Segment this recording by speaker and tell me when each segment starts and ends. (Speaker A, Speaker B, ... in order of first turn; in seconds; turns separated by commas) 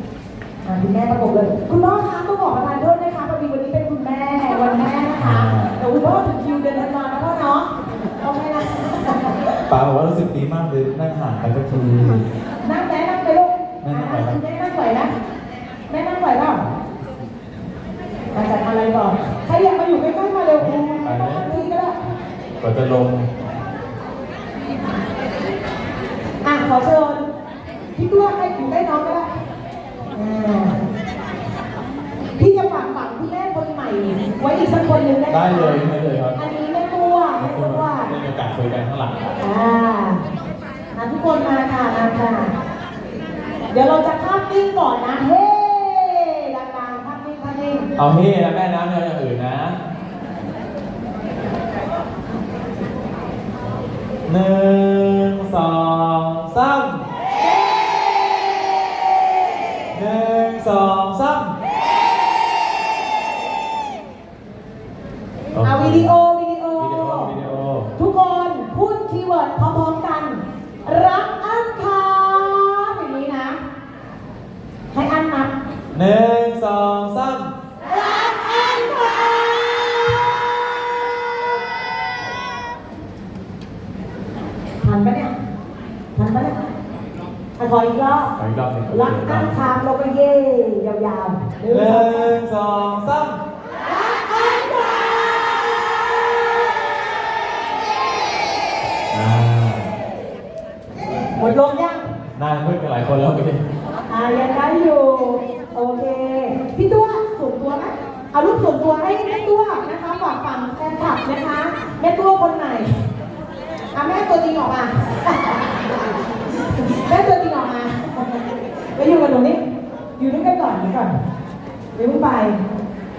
Speaker A: 0.7-7.7, Speaker B: 5.2-5.8, Speaker A: 8.2-9.4, Speaker B: 9.7-12.3, Speaker A: 12.6-15.1, Speaker B: 13.8-14.4, Speaker A: 15.9-16.6, Speaker A: 18.3-22.0, Speaker B: 20.6-21.7, Speaker B: 22.6-23.3, Speaker A: 26.4-27.2, Speaker A: 28.0-29.3, Speaker A: 30.1-30.8, Speaker A: 32.4-35.8, Speaker B: 35.3-36.4, Speaker A: 36.4-38.1, Speaker B: 37.4-39.3, Speaker A: 39.4-40.2, Speaker A: 41.0-42.5, Speaker A: 43.7-47.9, Speaker B: 48.0-49.8, Speaker B: 54.3-57.0, Speaker B: 59.9-61.5, Speaker B: 65.5-66.1, Speaker A: 65.6-67.3, Speaker B: 66.8-67.9, Speaker A: 68.0-73.6, Speaker A: 74.9-75.5, Speaker B: 75.9-77.5, Speaker A: 78.2-79.2, Speaker A: 84.8-85.3, Speaker A: 86.1-86.6, Speaker A: 87.6-88.3, Speaker B: 88.3-89.6, Speaker A: 88.9-92.3, Speaker B: 91.7-93.4, Speaker A: 94.2-94.8, Speaker B: 99.1-99.9, Speaker A: 101.4-102.0, Speaker B: 102.4-103.6, Speaker A: 104.1-112.9, Speaker A: 113.9-115.7, Speaker A: 116.8-118.4, Speaker A: 118.9-119.6, Speaker A: 120.2-121.1, Speaker A: 122.0-122.5